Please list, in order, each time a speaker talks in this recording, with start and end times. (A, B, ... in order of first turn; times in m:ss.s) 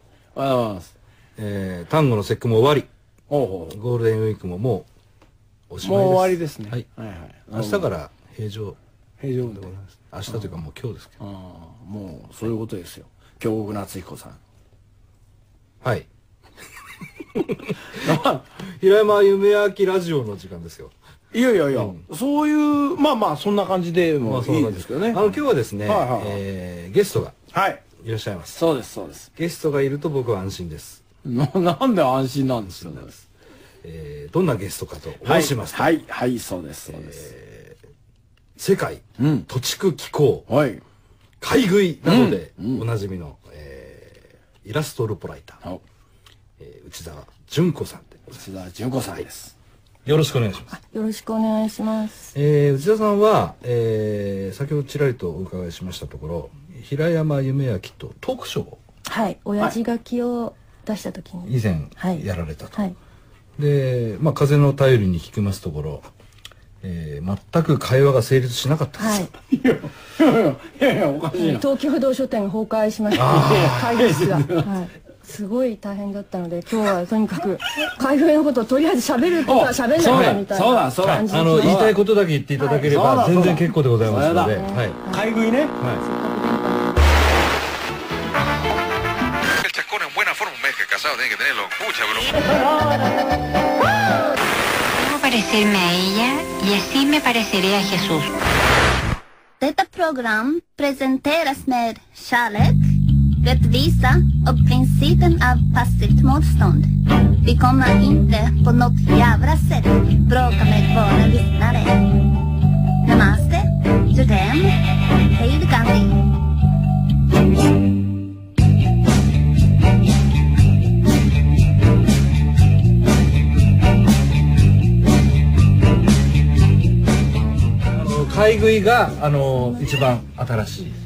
0:00.4-0:00.9 A
0:01.4-0:02.9 B
0:03.3-0:03.8 A
0:03.7-0:04.9 B
0:05.7-0:06.9 B
0:05.8-0:07.9 A
0:07.5-0:08.8 B
0:09.2-0:09.7 A
0:09.4-0:11.2 B
0:11.2-0:14.4 A
0:15.8-0:16.1 B
0:18.0-0:18.4 A
0:18.7-0:20.9 B
0:21.3-0:25.2 A
0:21.7-0:22.0 B
0:24.2-0:27.4 B
0:25.9-0:26.4 A
0:27.5-0:27.8 A
0:28.0-0:28.6 B
0:28.5-0:29.3 A
0:29.4-0:31.0 B
0:31.2-0:33.2 A
0:32.7-0:33.1 B
0:33.8-0:36.0 B
0:35.2-0:37.2 A
0:36.9-0:37.8 B
0:38.6-0:40.5 B
0:39.2-0:39.5 A
0:40.5-0:40.8 A
0:41.4-0:45.6 B
0:42.0-0:42.8 A
0:46.6-0:48.3 B
0:48.3-0:49.5 A
0:50.0-0:50.7 B
0:50.7-0:52.3 C
0:52.4-0:58.8 B
0:59.1-1:03.0 C
1:01.5-1:02.8 B
1:03.6-1:06.1 B
1:06.8-1:09.3 B
1:09.0-1:09.3 C
1:09.4-1:11.7 A
1:11.4-1:21.9 C
1:13.2-1:13.8 B
1:13.2-1:14.7 A
1:19.4-1:22.0 A
1:20.0-1:20.5 B
1:21.0-1:25.0 B
1:22.6-1:22.9 C
1:22.8-1:25.8 A
1:24.5-1:25.3 C
1:26.0-1:27.2 C
1:29.6-1:32.5 D
1:32.5-1:33.1 A
1:34.9-1:38.4 E
1:39.6-1:46.9 F
1:47.4-1:52.0 F
1:53.0-1:54.8 F
1:55.3-1:56.2 F
2:07.9-2:11.0 B
2:09.5-2:09.9 C